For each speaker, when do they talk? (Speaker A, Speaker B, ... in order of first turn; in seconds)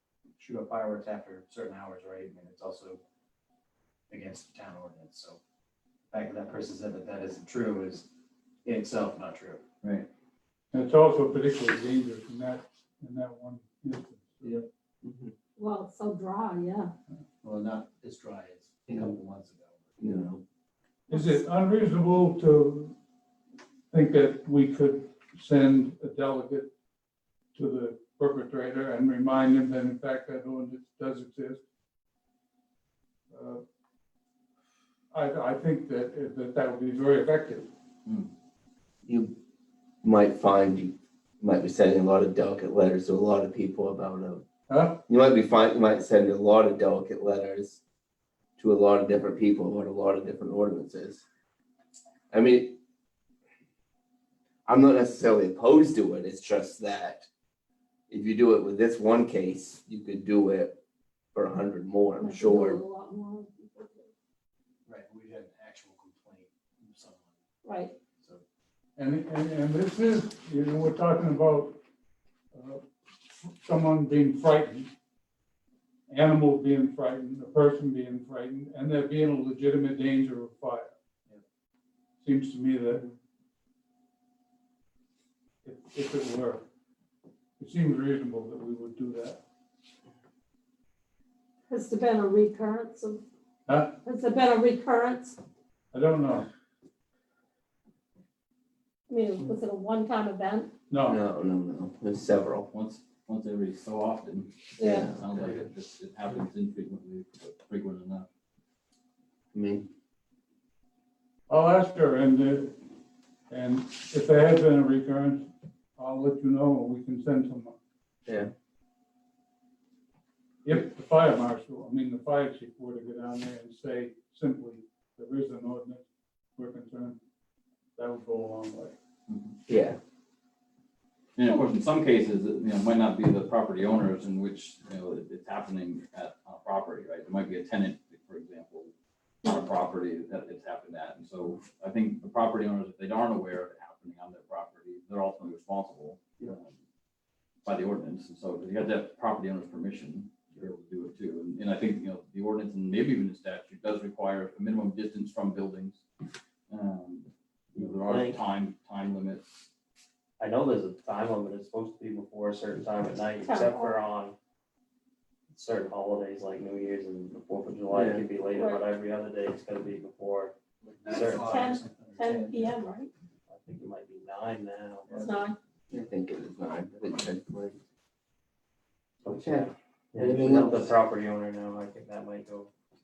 Speaker A: 0.4-3.0, 4.1-5.4, 6.1-8.1, 8.7-9.6, 17.4-20.0, 64.9-67.4, 170.8-172.8, 175.1-175.5
Speaker B: 9.8-10.1, 38.1-38.3, 102.7-108.3, 129.3-129.6, 131.4-138.9, 139.4-146.7, 147.7-156.0, 156.7-159.7
Speaker C: 10.7-14.6, 21.1-23.0, 23.9-26.7, 27.6-31.6, 33.3-33.6, 35.1-37.7, 44.7-45.0, 69.0-71.8, 72.5-74.9, 76.1-80.9, 82.2-83.1, 85.6-86.7, 87.6-89.4, 93.7-94.0, 95.9-96.5, 100.9-101.2, 111.5-112.8, 113.5-117.8, 120.6-127.2, 128.0-129.0
Speaker D: 15.0-15.3, 18.9-19.1, 20.0-20.4, 39.1-39.4, 40.0-44.5, 45.1-47.8, 48.6-51.2, 52.3-52.8, 54.7-57.3, 58.1-60.8, 61.4-62.8, 101.0-102.7, 104.8-105.2, 109.5-109.9, 118.3-118.5, 129.7-130.0, 167.9-168.2, 175.9-177.8, 179.3-180.9
Speaker E: 15.6-16.9, 21.1-21.4, 62.2-64.1, 67.6-67.9, 91.7-93.2, 94.0-95.4, 99.1-100.7, 104.8-105.1, 163.4-164.0, 168.5-168.9, 171.4-173.1, 175.1-175.6
Speaker F: 157.8-158.4, 160.4-164.4, 165.5-171.7, 173.5-175.2, 179.2-182.7